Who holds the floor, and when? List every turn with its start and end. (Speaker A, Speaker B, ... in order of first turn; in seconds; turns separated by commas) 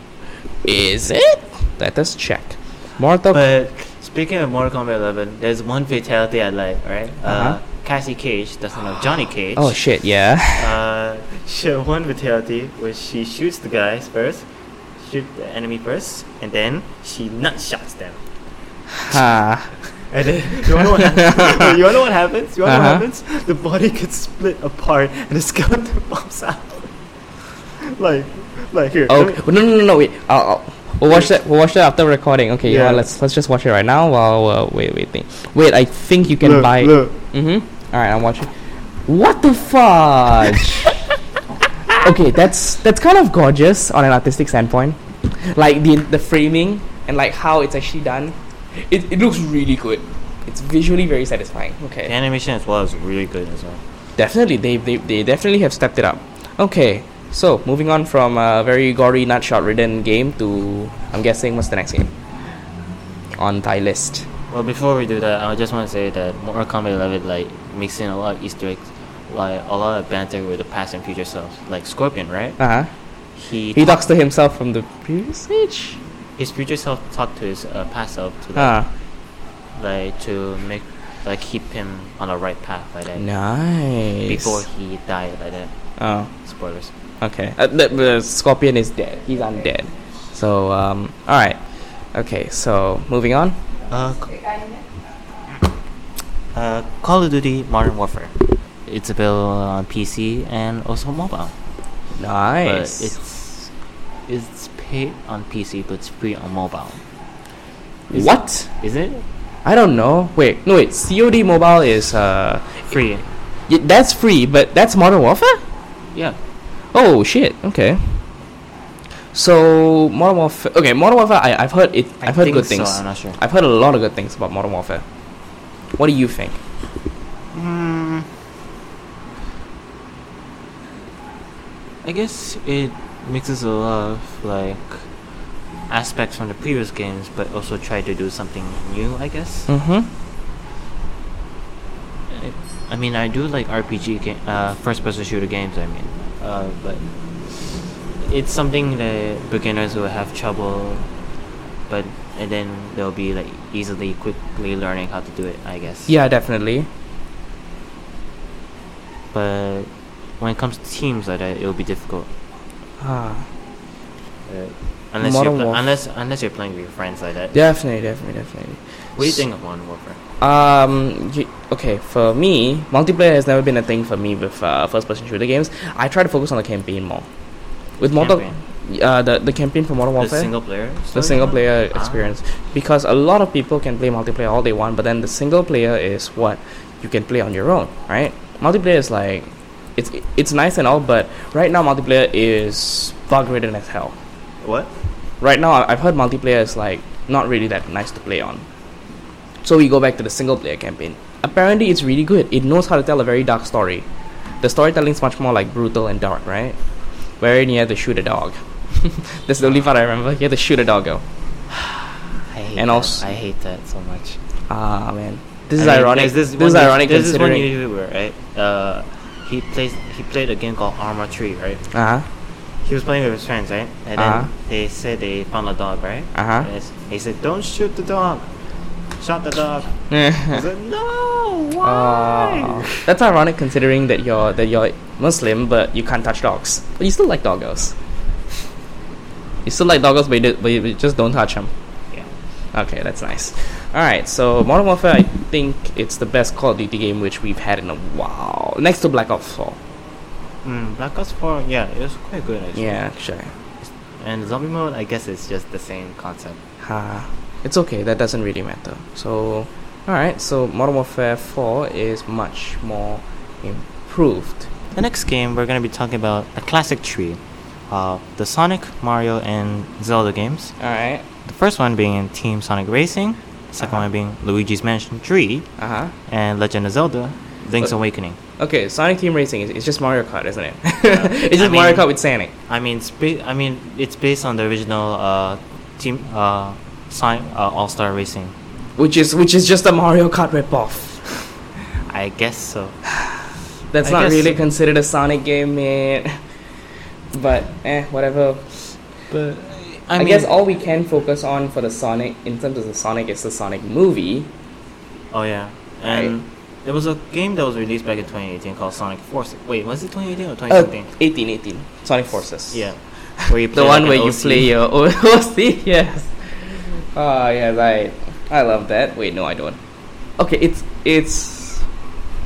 Speaker A: 0.6-3.4, Speaker B: 3.3-9.8, Speaker A: 7.2-7.6, Speaker A: 9.6-10.8, Speaker B: 10.6-14.5, Speaker B: 15.0-18.2, Speaker A: 18.9-19.8, Speaker B: 19.9-26.9, Speaker A: 20.8-21.7, Speaker A: 22.6-23.0, Speaker B: 27.6-29.4, Speaker A: 29.1-38.5, Speaker B: 32.6-33.0, Speaker B: 36.4-37.1, Speaker A: 39.1-40.9, Speaker A: 42.0-52.1, Speaker B: 52.0-53.8, Speaker A: 54.2-62.1, Speaker A: 63.4-64.3, Speaker B: 64.5-72.6, Speaker A: 72.6-72.9, Speaker B: 73.3-74.0, Speaker A: 73.7-76.0, Speaker B: 76.4-78.7, Speaker A: 78.5-78.9, Speaker B: 79.7-83.2, Speaker A: 83.2-84.6, Speaker B: 84.2-85.7, Speaker A: 86.0-86.3, Speaker B: 86.4-86.9, Speaker A: 87.2-91.6, Speaker A: 92.1-93.6, Speaker B: 93.9-94.6, Speaker B: 96.5-101.5, Speaker A: 102.2-103.1, Speaker B: 102.6-103.7, Speaker B: 104.3-107.0, Speaker A: 108.1-108.7, Speaker B: 108.1-109.2, Speaker A: 109.6-112.8, Speaker B: 112.9-113.2, Speaker A: 113.7-115.6, Speaker A: 116.9-118.2, Speaker A: 119.3-125.0, Speaker B: 122.2-123.4, Speaker A: 126.0-126.6, Speaker B: 127.5-128.3, Speaker B: 132.0-135.1, Speaker B: 135.9-139.7, Speaker A: 139.7-140.1, Speaker B: 142.3-151.1, Speaker B: 151.9-156.1, Speaker A: 156.1-156.9, Speaker B: 159.3-162.3, Speaker A: 163.0-163.5, Speaker B: 164.5-167.6, Speaker A: 165.2-165.8, Speaker A: 167.5-169.4, Speaker B: 169.2-170.2, Speaker A: 170.4-177.3, Speaker A: 178.0-180.5, Speaker B: 178.0-178.6, Speaker B: 180.2-182.4, Speaker A: 181.1-194.2, Speaker B: 194.6-194.9, Speaker A: 195.4-198.6, Speaker A: 199.6-204.1, Speaker A: 204.6-206.8, Speaker A: 207.4-211.2, Speaker B: 211.7-214.4, Speaker A: 212.8-213.2, Speaker A: 214.7-217.7, Speaker B: 215.8-221.8, Speaker A: 221.9-222.3, Speaker B: 222.8-228.5, Speaker A: 224.2-224.5, Speaker A: 226.3-226.7, Speaker B: 229.2-229.9, Speaker A: 230.1-230.6, Speaker B: 230.5-233.1, Speaker A: 231.8-237.9, Speaker A: 239.6-241.7, Speaker A: 242.7-249.8, Speaker B: 250.6-253.0, Speaker A: 252.8-253.5, Speaker B: 253.8-256.6, Speaker A: 256.8-264.7, Speaker B: 264.9-270.7, Speaker A: 270.8-271.2, Speaker B: 271.4-275.7, Speaker A: 275.8-276.1, Speaker B: 276.3-278.4, Speaker A: 278.6-282.5, Speaker B: 281.1-282.1, Speaker B: 282.7-288.5, Speaker A: 289.0-291.4, Speaker B: 292.1-293.0, Speaker A: 293.9-296.4, Speaker B: 294.0-294.6, Speaker A: 297.3-298.9, Speaker B: 299.3-300.5, Speaker A: 300.2-304.5, Speaker B: 305.3-311.1, Speaker A: 306.1-306.3, Speaker A: 310.7-312.8, Speaker B: 312.7-314.7, Speaker A: 313.4-319.8, Speaker A: 320.4-321.9